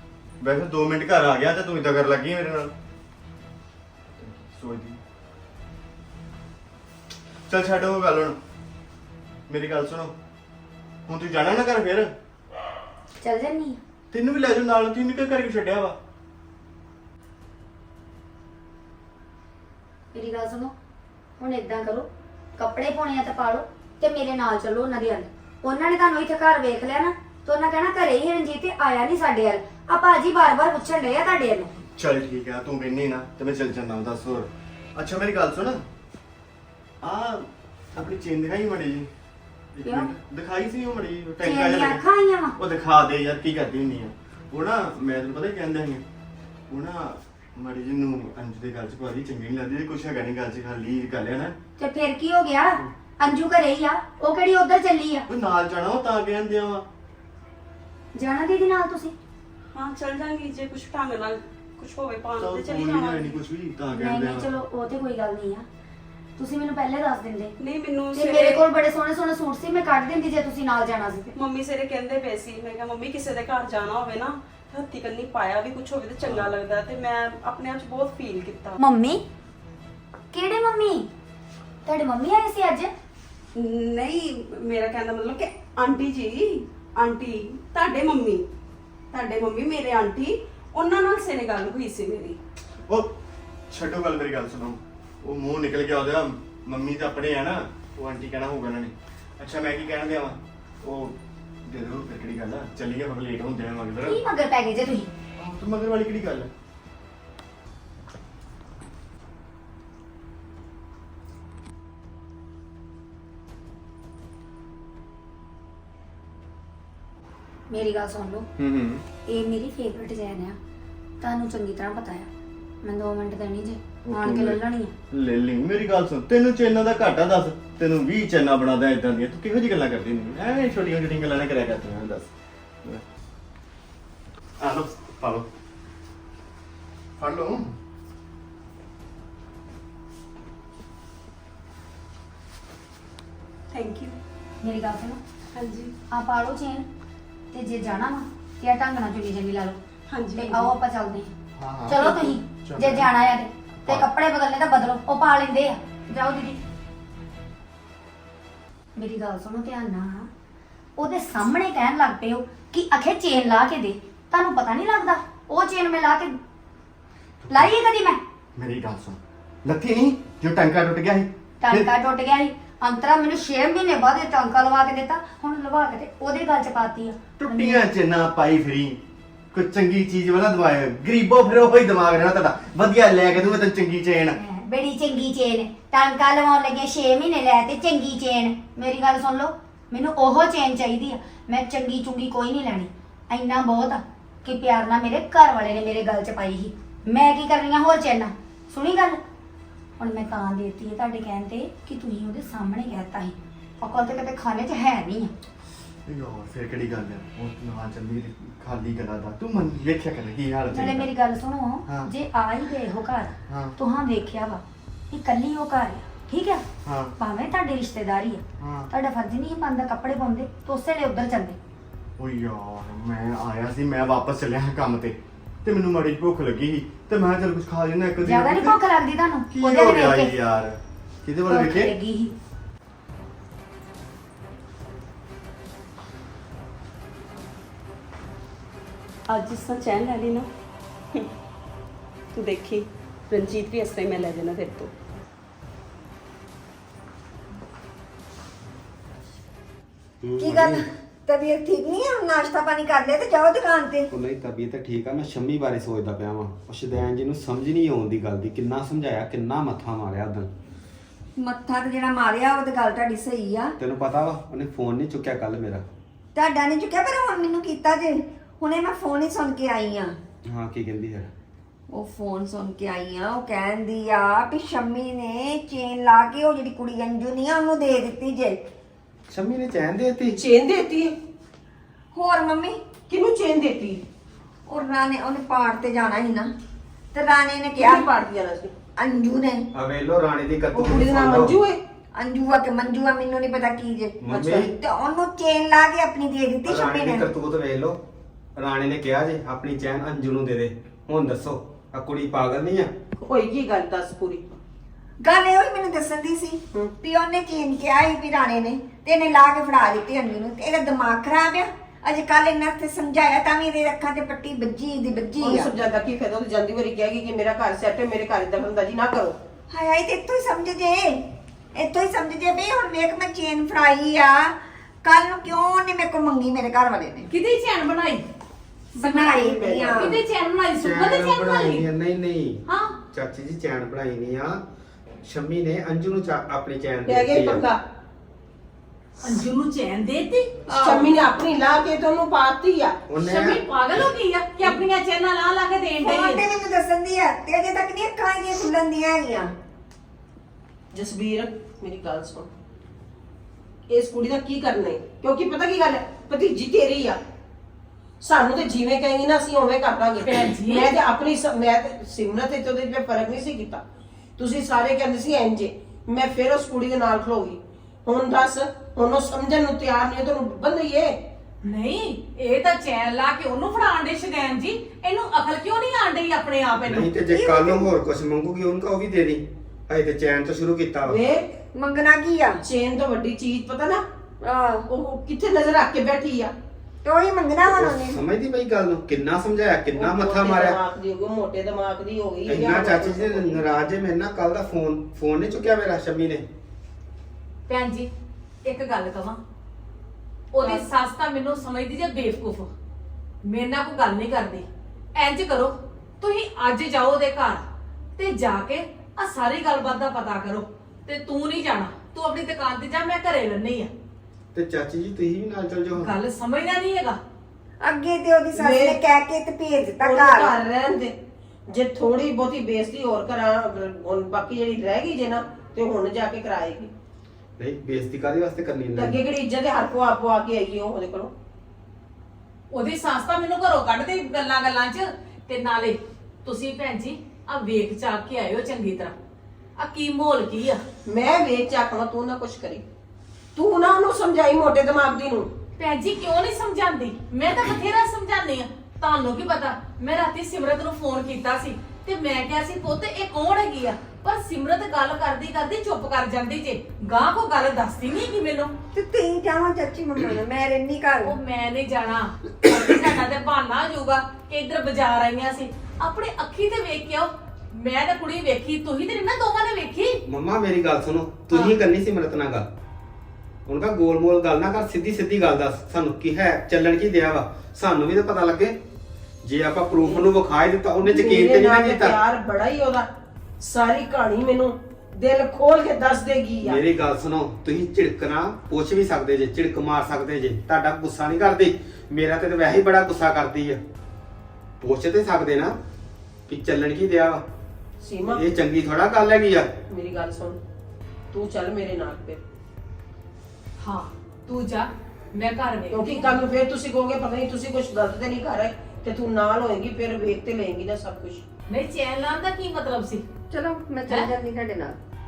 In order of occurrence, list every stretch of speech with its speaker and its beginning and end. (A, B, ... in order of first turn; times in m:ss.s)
0:00.4-0:02.7 A
0:04.2-0:05.0 A
0:07.5-0:08.4 A
0:09.5-0:10.1 A
0:11.1-0:12.1 A
0:13.2-0:13.8 B
0:14.1-0:16.0 A
0:20.1-0:20.7 B
0:21.4-0:31.7 B
0:32.0-0:35.8 A
0:37.0-0:39.1 A
0:39.7-0:42.0 A
0:39.8-0:40.1 B
0:41.4-0:42.6 B
0:42.6-0:46.0 A
0:46.7-0:51.6 A
0:51.8-0:55.3 B
0:55.3-0:56.8 A
0:58.2-0:59.1 B
0:59.7-1:03.4 C
1:02.4-1:04.5 A
1:03.9-1:05.6 B
1:06.4-1:07.5 B
1:07.6-1:08.6 C
1:08.1-1:11.3 B
1:11.3-1:18.8 C
1:18.8-1:19.2 B
1:20.3-1:21.1 B
1:21.8-1:22.9 B
1:23.6-1:28.4 C
1:29.1-1:32.4 C
1:32.9-1:33.1 A
1:33.7-1:44.2 A
1:44.0-1:45.1 B
1:45.4-1:46.5 A
1:57.7-1:58.5 B
1:58.6-1:59.0 A
1:59.3-2:00.6 B
2:01.2-2:02.3 B
2:02.8-2:04.9 B
2:04.0-2:04.6 A
2:05.1-2:12.3 A
2:14.6-2:15.5 A
2:17.2-2:17.7 A
2:23.7-2:24.2 C
2:24.6-2:25.2 B
2:25.5-2:25.9 C
2:26.1-2:26.8 B
2:27.5-2:29.8 B
2:30.1-2:30.7 C
2:30.4-2:31.3 B
2:31.6-2:33.1 A
2:31.9-2:36.6 B
2:39.0-2:40.3 B
2:41.0-2:46.4 B
2:47.4-2:47.7 A
2:47.5-2:48.2 B
2:48.6-2:51.9 A
2:51.6-2:57.8 B
2:57.4-2:59.0 A
2:59.5-3:04.4 A
3:04.4-3:19.2 B
3:20.0-3:25.3 B
3:26.0-3:31.1 A
3:30.7-3:36.6 B
3:33.5-3:33.8 A
3:36.8-3:37.1 A
3:37.2-3:41.6 B
3:38.6-3:38.9 A
3:42.2-3:48.8 A
3:48.2-3:50.3 B
3:49.5-3:51.9 A
3:51.5-3:52.3 B
3:59.3-4:00.5 C
4:02.3-4:04.9 C
4:10.2-4:10.8 D
4:10.4-4:14.1 E
4:14.1-4:20.5 D
4:21.4-4:23.7 E
4:23.8-4:25.8 D
4:26.3-4:30.1 E
4:30.4-4:31.3 D
4:31.9-4:38.6 E
4:39.3-4:40.4 D
4:40.4-4:41.1 F
4:42.1-4:42.8 E
4:43.1-4:44.0 F
4:44.7-4:46.5 E
4:47.1-4:48.1 E
4:47.7-4:48.7 F
4:49.0-4:49.6 E
4:49.7-4:51.6 D
4:50.8-4:51.8 F
4:52.2-4:57.3 E
4:54.2-4:54.7 D
4:54.3-4:54.6 F
4:56.6-4:58.0 D
4:58.6-5:02.9 D
5:03.2-5:04.4 F
5:05.2-5:15.7 E
5:15.4-5:19.4 F
5:19.7-5:21.2 E
5:21.8-5:27.3 E
5:27.3-5:28.2 G
5:28.9-5:30.1 E
5:29.0-5:31.9 G
5:29.4-5:30.1 F
5:30.7-5:34.6 D
5:32.7-5:33.0 G
5:35.2-5:37.6 D
5:37.0-5:37.8 F
5:39.2-5:40.5 G
5:40.7-5:43.0 F
5:43.1-5:44.1 D
5:43.2-5:46.4 G
5:46.0-5:49.5 E
5:50.9-5:52.5 F
5:53.9-5:57.2 F
5:58.2-6:03.8 F
6:00.2-6:00.9 G
6:04.4-6:11.2 F
6:11.6-6:17.1 G
6:16.8-6:21.2 D
6:17.2-6:17.9 E
6:21.0-6:21.5 F
6:21.7-6:22.6 E
6:22.6-6:24.0 F
6:24.4-6:24.8 E
6:24.9-6:26.5 F
6:27.0-6:28.2 E
6:27.7-6:30.8 D
6:29.9-6:33.6 F
6:32.4-6:36.4 D
6:37.7-6:38.1 G
6:38.6-6:39.4 G
6:40.5-6:42.7 G
6:40.6-6:40.8 F
6:43.4-6:47.6 G
6:48.2-6:53.9 G
6:54.5-6:56.1 D
6:55.9-6:57.2 G
6:57.8-7:00.5 E
6:58.6-6:59.0 F
7:00.0-7:01.1 F
7:01.7-7:06.9 F
7:07.6-7:09.2 D
7:08.9-7:11.3 F
7:12.7-7:19.1 G
7:19.8-7:20.8 G
7:21.1-7:22.8 F
7:23.5-7:25.5 F
7:25.8-7:38.7 G
7:38.9-7:41.4 E
7:41.2-7:50.2 G
7:50.3-7:52.6 D
7:51.5-7:51.8 G
7:53.7-7:58.8 D
7:59.4-8:02.2 D
8:01.0-8:03.1 F
8:03.6-8:06.8 F
8:06.6-8:13.8 D
8:14.8-8:15.7 D
8:16.5-8:17.4 D
8:18.0-8:18.5 F
8:18.2-8:19.7 D
8:19.9-8:20.6 F
8:21.3-8:22.4 F
8:23.8-8:26.4 G
8:25.9-8:31.4 F
8:31.7-8:33.2 G
8:33.5-8:35.0 E